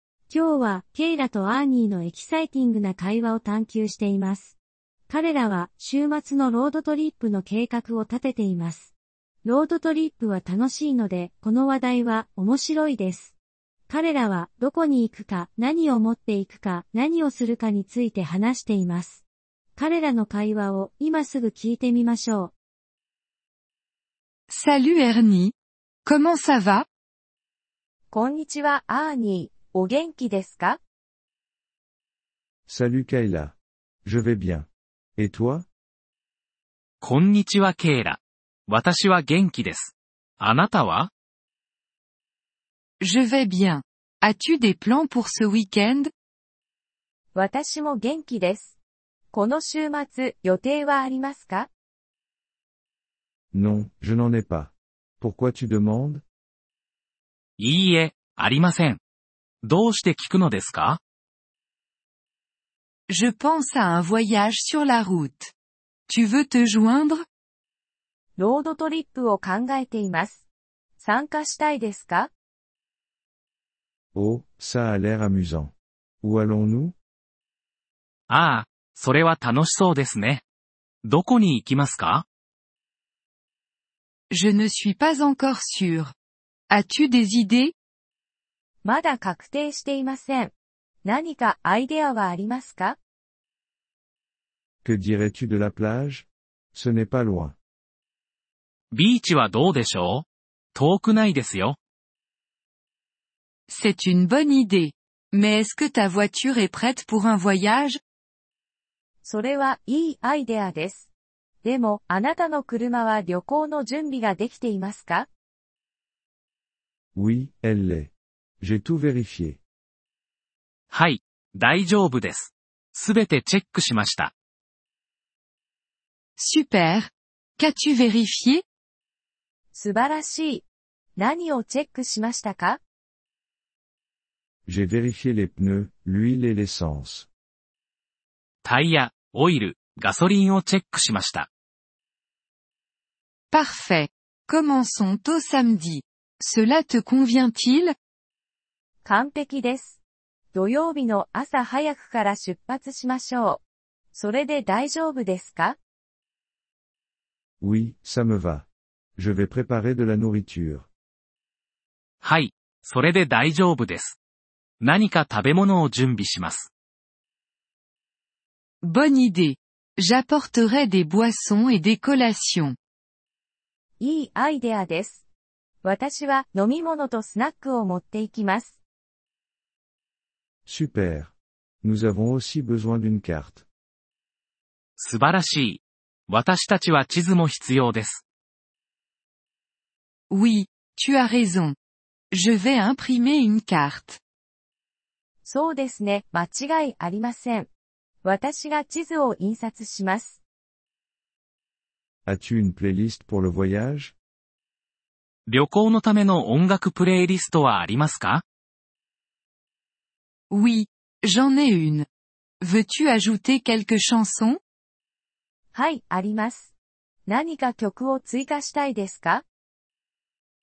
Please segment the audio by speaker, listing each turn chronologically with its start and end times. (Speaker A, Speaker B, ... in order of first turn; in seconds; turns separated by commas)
Speaker A: 0.3-4.6, Speaker A: 5.1-13.4, Speaker A: 13.9-19.2, Speaker A: 19.8-22.5, Speaker B: 24.5-25.5, Speaker B: 26.1-26.9, Speaker C: 28.1-30.8, Speaker D: 32.7-35.7, Speaker E: 37.0-41.1, Speaker B: 43.0-46.1, Speaker C: 47.3-48.8, Speaker C: 49.3-51.7, Speaker D: 53.5-56.2, Speaker E: 57.6-59.0, Speaker E: 59.6-61.0, Speaker B: 63.1-65.5, Speaker B: 66.1-67.2, Speaker C: 68.4-70.5, Speaker C: 71.0-72.3, Speaker D: 74.1-76.9, Speaker E: 78.3-80.4, Speaker E: 81.0-82.2, Speaker B: 84.3-86.1, Speaker B: 86.7-87.7, Speaker C: 88.8-90.5, Speaker C: 91.0-93.0, Speaker D: 94.8-97.6, Speaker E: 98.9-101.8, Speaker B: 103.7-108.0, Speaker C: 109.2-111.1, Speaker C: 111.6-115.3, Speaker D: 117.1-119.6, Speaker E: 120.9-124.3, Speaker B: 126.4-128.6, Speaker C: 129.7-130.7, Speaker C: 131.2-132.8, Speaker D: 134.7-137.3, Speaker E: 138.6-141.5, Speaker B: 143.5-147.9, Speaker C: 149.0-150.0, Speaker C: 150.5-153.6, Speaker C: 154.1-155.8, Speaker D: 157.6-160.9, Speaker E: 162.2-164.2, Speaker E: 164.8-166.7, Speaker B: 168.8-172.8, Speaker C: 174.0-175.2, Speaker C: 175.8-178.8, Speaker D: 180.7-183.7, Speaker E: 185.0-188.2, Speaker B: 190.3-191.8, Speaker B: 192.3-194.2, Speaker C: 195.4-197.7, Speaker C: 198.2-200.4, Speaker D: 202.2-204.1, Speaker E: 205.5-208.4, Speaker B: 210.5-212.1, Speaker B: 212.6-214.6, Speaker C: 215.7-216.7, Speaker C: 217.2-219.4